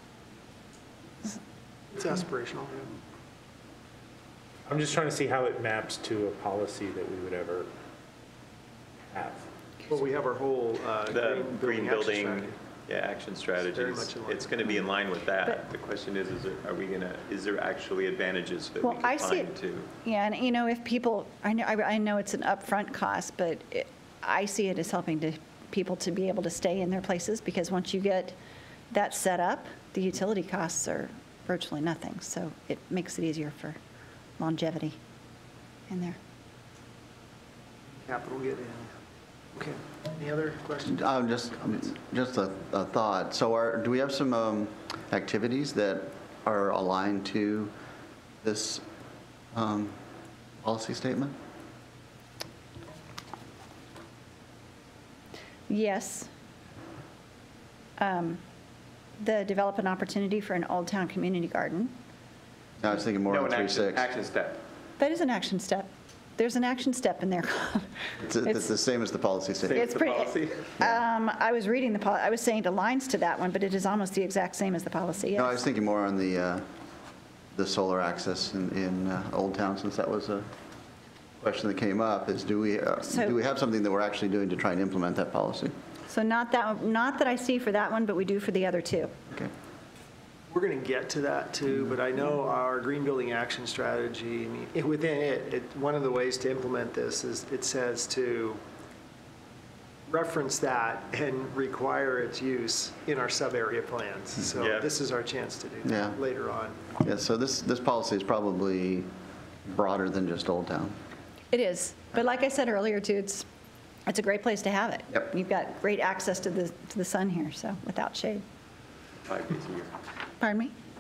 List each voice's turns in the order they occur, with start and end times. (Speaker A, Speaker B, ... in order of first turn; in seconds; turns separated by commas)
Speaker A: 1.9-3.0, Speaker B: 4.7-7.7, Speaker B: 9.1-9.5, Speaker A: 9.9-12.6, Speaker C: 11.1-19.9, Speaker A: 13.6-14.6, Speaker D: 18.8-19.5, Speaker D: 20.0-28.4, Speaker D: 28.9-33.8, Speaker D: 34.4-35.0, Speaker D: 35.9-36.2, Speaker A: 37.9-38.9, Speaker A: 39.5-41.1, Speaker E: 40.9-47.7, Speaker E: 48.4-48.8, Speaker E: 49.5-50.0, Speaker E: 50.6-51.4, Speaker D: 55.7-56.3, Speaker D: 58.0-58.4, Speaker D: 59.2-61.9, Speaker E: 62.8-64.1, Speaker C: 63.3-64.6, Speaker D: 65.0-67.9, Speaker E: 68.2-69.9, Speaker D: 68.5-68.7, Speaker C: 69.6-70.7, Speaker D: 69.7-75.6, Speaker E: 75.3-76.7, Speaker E: 77.5-80.5, Speaker E: 81.4-85.8, Speaker D: 83.1-83.4, Speaker D: 86.1-89.1, Speaker A: 90.5-98.6, Speaker A: 100.1-106.8, Speaker C: 104.6-104.9, Speaker E: 105.8-106.2, Speaker E: 107.0-109.1, Speaker E: 109.7-111.0, Speaker D: 111.5-113.5, Speaker D: 114.1-118.4, Speaker C: 119.2-119.9, Speaker D: 120.4-120.7